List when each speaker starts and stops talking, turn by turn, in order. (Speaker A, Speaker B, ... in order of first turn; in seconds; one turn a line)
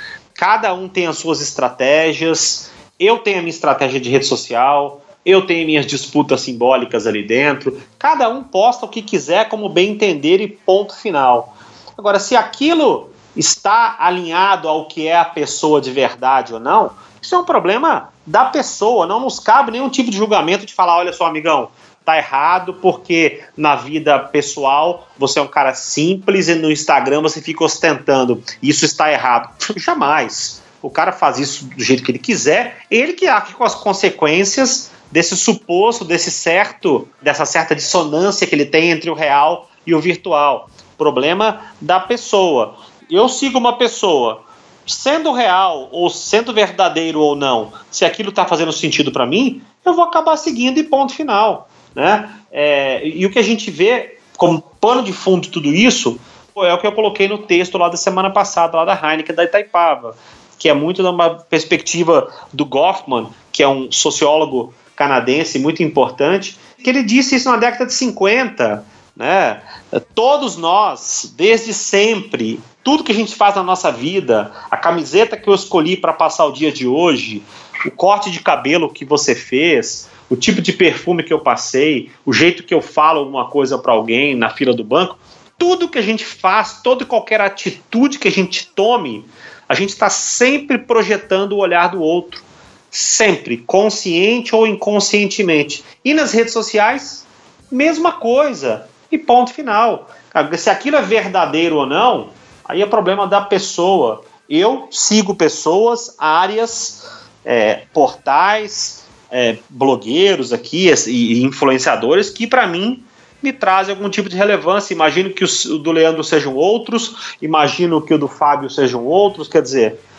Speaker A: 0.4-120.0